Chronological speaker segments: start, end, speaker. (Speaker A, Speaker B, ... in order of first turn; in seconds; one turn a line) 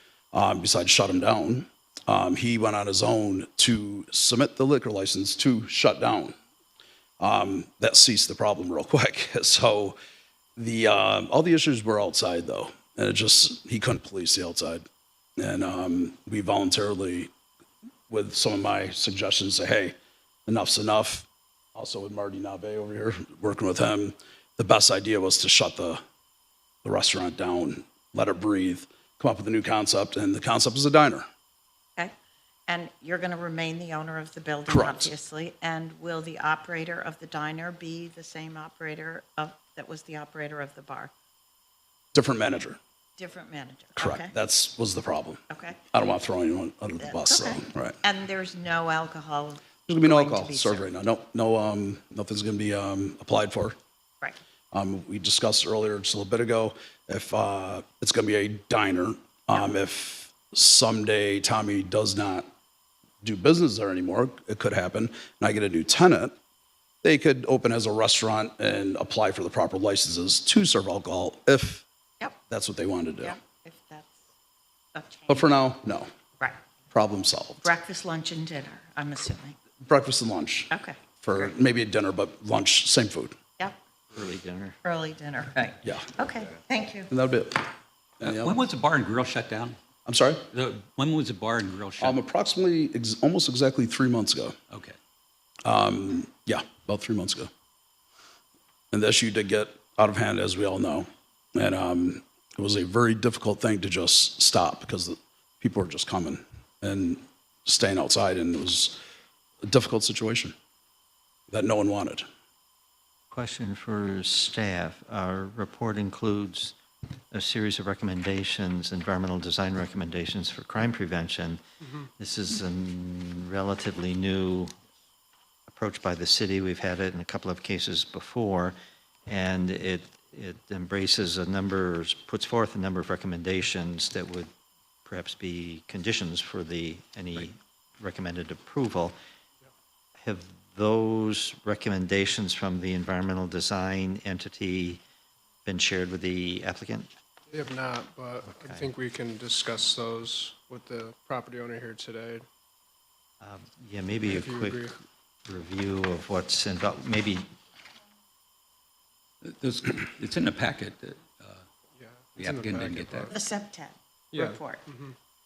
Speaker A: 0.3-6.3
Speaker A: 7.2-10.0
Speaker A: 10.6-14.8
Speaker A: 15.4-17.3
Speaker A: 18.1-19.9
Speaker A: 20.5-26.0
Speaker A: 26.8-31.2
Speaker B: 32.7-41.1
Speaker A: 34.7-35.1
Speaker A: 42.1-42.8
Speaker B: 43.2-44.3
Speaker A: 44.0-48.0
Speaker B: 45.5-45.8
Speaker B: 47.0-50.9
Speaker A: 49.9-53.8
Speaker A: 54.7-62.5
Speaker A: 63.2-66.3
Speaker A: 67.0-71.8
Speaker A: 72.5-73.3
Speaker B: 73.2-74.2
Speaker B: 74.9-75.6
Speaker A: 75.3-76.1
Speaker A: 76.9-77.6
Speaker B: 77.6-79.6
Speaker A: 79.8-83.4
Speaker B: 80.7-81.5
Speaker C: 84.1-84.8
Speaker B: 84.8-87.1
Speaker A: 85.8-86.1
Speaker A: 87.1-87.7
Speaker A: 88.2-88.6
Speaker D: 88.2-89.8
Speaker A: 90.1-90.5
Speaker D: 90.5-92.2
Speaker A: 92.0-94.6
Speaker A: 95.6-97.5
Speaker A: 98.9-109.0
Speaker A: 109.6-110.5
Speaker A: 111.5-112.2
Speaker C: 113.3-116.8
Speaker C: 117.3-124.7
Speaker C: 125.7-128.8
Speaker C: 129.3-134.5
Speaker C: 135.1-139.1
Speaker C: 140.2-145.0
Speaker C: 145.6-147.1
Speaker E: 147.5-152.4
Speaker C: 148.4-148.9
Speaker C: 153.4-154.9
Speaker E: 154.2-155.0
Speaker C: 155.4-157.5
Speaker D: 159.4-161.6
Speaker E: 162.0-163.4
Speaker D: 162.4-163.3
Speaker B: 163.3-164.8
Speaker E: 164.3-165.2